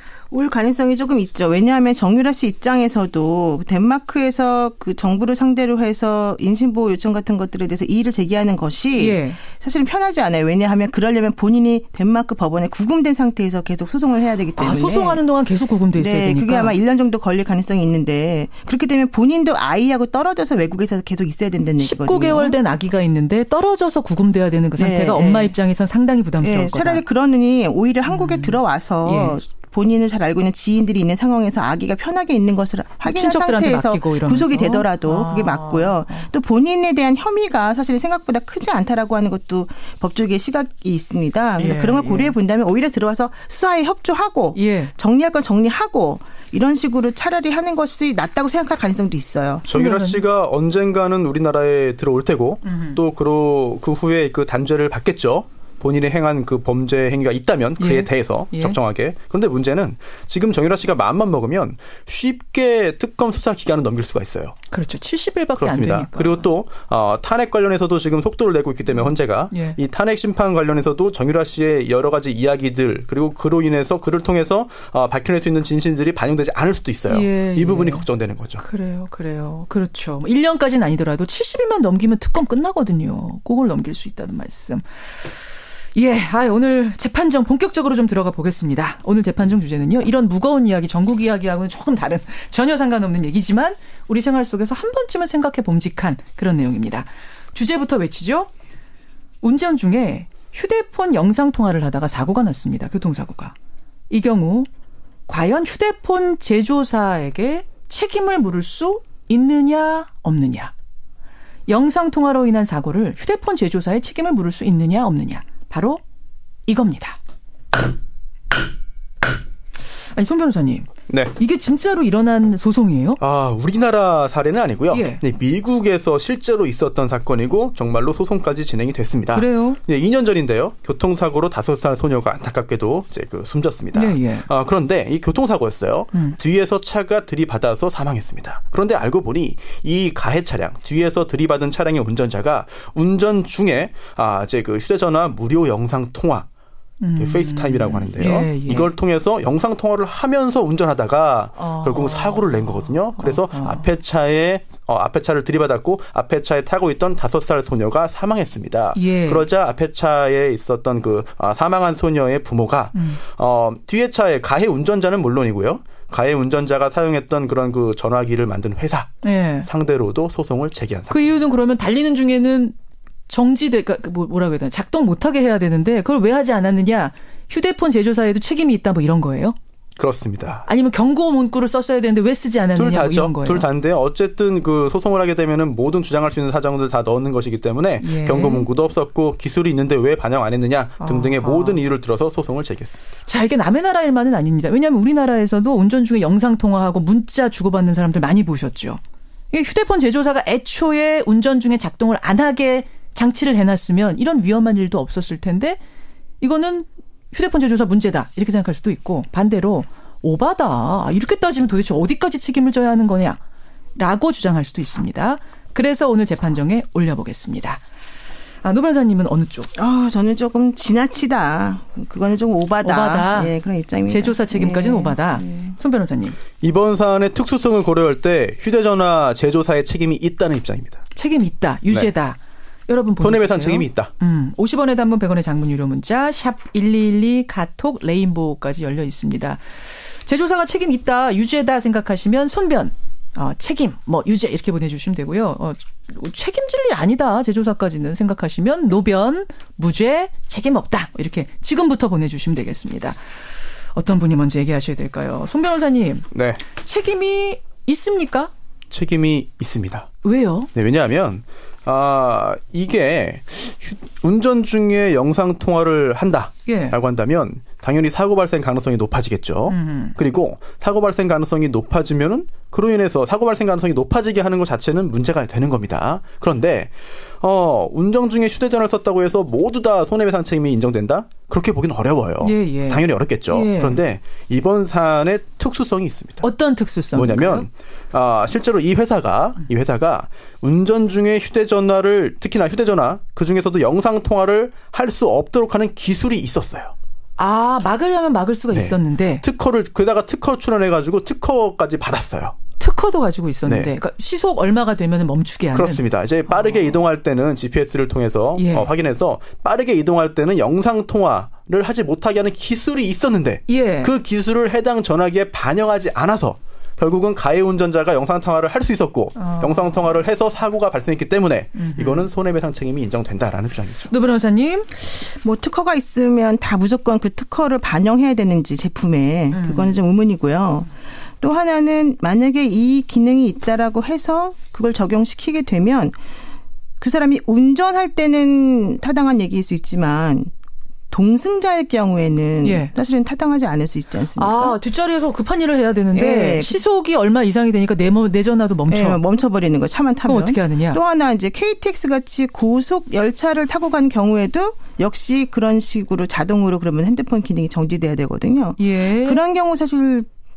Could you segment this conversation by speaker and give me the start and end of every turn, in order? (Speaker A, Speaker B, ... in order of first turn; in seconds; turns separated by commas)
Speaker A: 0.3-15.2, Speaker B: 9.0-9.4, Speaker B: 14.6-16.8, Speaker A: 15.9-22.6, Speaker B: 21.8-27.0, Speaker A: 24.8-25.6, Speaker A: 26.4-49.7, Speaker B: 28.1-29.4, Speaker B: 33.1-36.3, Speaker B: 41.6-42.4, Speaker B: 44.5-44.9, Speaker B: 49.7-50.2, Speaker C: 49.7-64.6, Speaker B: 52.6-53.0, Speaker B: 57.8-58.8, Speaker B: 64.7-66.5, Speaker C: 65.6-78.6, Speaker B: 68.9-69.8, Speaker B: 77.1-78.1, Speaker B: 78.6-85.3, Speaker B: 86.0-98.5, Speaker B: 99.4-103.5, Speaker B: 104.1-104.7, Speaker B: 105.3-110.7, Speaker B: 111.7-116.0, Speaker B: 116.7-117.2, Speaker B: 120.1-123.2, Speaker C: 121.1-121.3, Speaker C: 123.2-146.5, Speaker B: 124.9-125.2, Speaker B: 129.3-129.8, Speaker B: 133.9-134.5, Speaker B: 147.0-148.9, Speaker C: 147.2-171.3, Speaker B: 151.6-153.9, Speaker B: 158.9-159.5, Speaker B: 162.9-163.2, Speaker B: 169.2-169.7, Speaker B: 171.1-172.8, Speaker B: 173.3-179.6, Speaker C: 180.0-180.7, Speaker B: 180.7-183.7, Speaker C: 182.8-193.0, Speaker B: 188.0-188.7, Speaker B: 191.0-191.8, Speaker B: 193.3-205.8, Speaker B: 206.4-213.4, Speaker B: 214.0-217.8, Speaker B: 218.6-219.7, Speaker A: 219.8-225.8, Speaker B: 222.8-223.6, Speaker B: 224.1-226.4, Speaker C: 226.6-231.0, Speaker B: 231.2-253.2, Speaker C: 233.2-234.1, Speaker B: 253.9-256.3, Speaker C: 256.3-256.6, Speaker B: 256.8-258.5, Speaker C: 258.9-260.1, Speaker B: 260.2-260.7, Speaker C: 260.8-286.5, Speaker B: 266.7-267.0, Speaker B: 269.7-270.2, Speaker B: 282.4-284.0, Speaker B: 286.4-287.7, Speaker C: 287.1-296.9, Speaker B: 297.4-299.4, Speaker C: 298.7-302.6, Speaker B: 302.8-307.0, Speaker C: 303.6-303.9, Speaker C: 305.7-324.1, Speaker B: 308.6-308.9, Speaker B: 313.7-314.1, Speaker B: 319.4-320.2, Speaker B: 321.8-322.3, Speaker B: 324.1-324.9, Speaker A: 325.2-330.9, Speaker B: 329.5-330.0, Speaker A: 331.4-336.1, Speaker A: 337.0-340.5, Speaker A: 341.1-344.8, Speaker B: 342.6-342.9, Speaker B: 344.4-349.2, Speaker A: 346.1-346.8, Speaker A: 348.9-360.3, Speaker B: 350.2-351.0, Speaker B: 358.8-359.4